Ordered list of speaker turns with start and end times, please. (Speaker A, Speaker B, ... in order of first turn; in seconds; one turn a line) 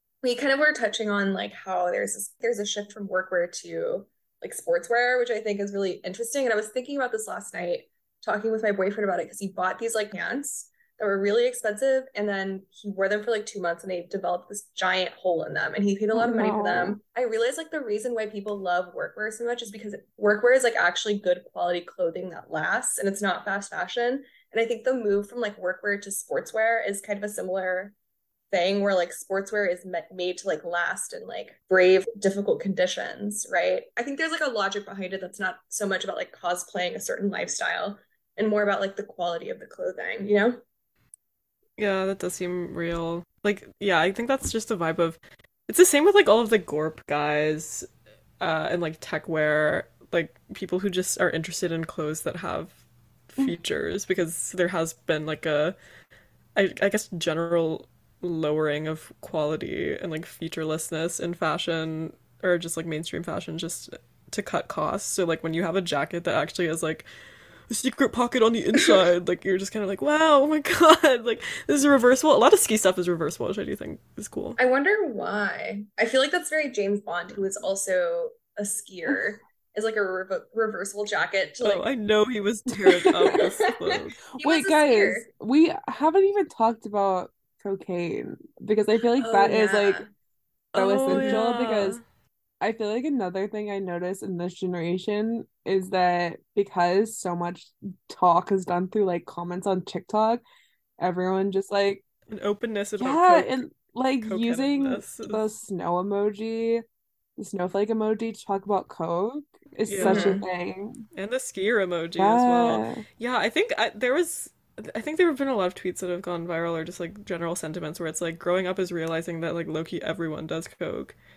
Speaker A: 0.2-27.9
Speaker B: 16.1-17.0
Speaker A: 28.5-40.6
Speaker C: 41.8-47.9
Speaker C: 48.4-55.8
Speaker C: 56.6-67.1
Speaker C: 67.7-74.6
Speaker A: 74.6-81.8
Speaker C: 81.6-84.2
Speaker A: 83.3-85.3
Speaker B: 84.4-90.1
Speaker A: 89.2-90.1
Speaker C: 90.7-92.0
Speaker B: 90.8-92.0
Speaker A: 91.1-91.4
Speaker B: 92.6-100.4
Speaker B: 101.0-102.0
Speaker C: 102.3-103.6
Speaker B: 103.0-106.8
Speaker C: 104.2-105.4
Speaker B: 107.4-111.1
Speaker C: 109.9-110.4
Speaker A: 110.0-110.5
Speaker C: 111.1-121.1
Speaker B: 112.2-113.0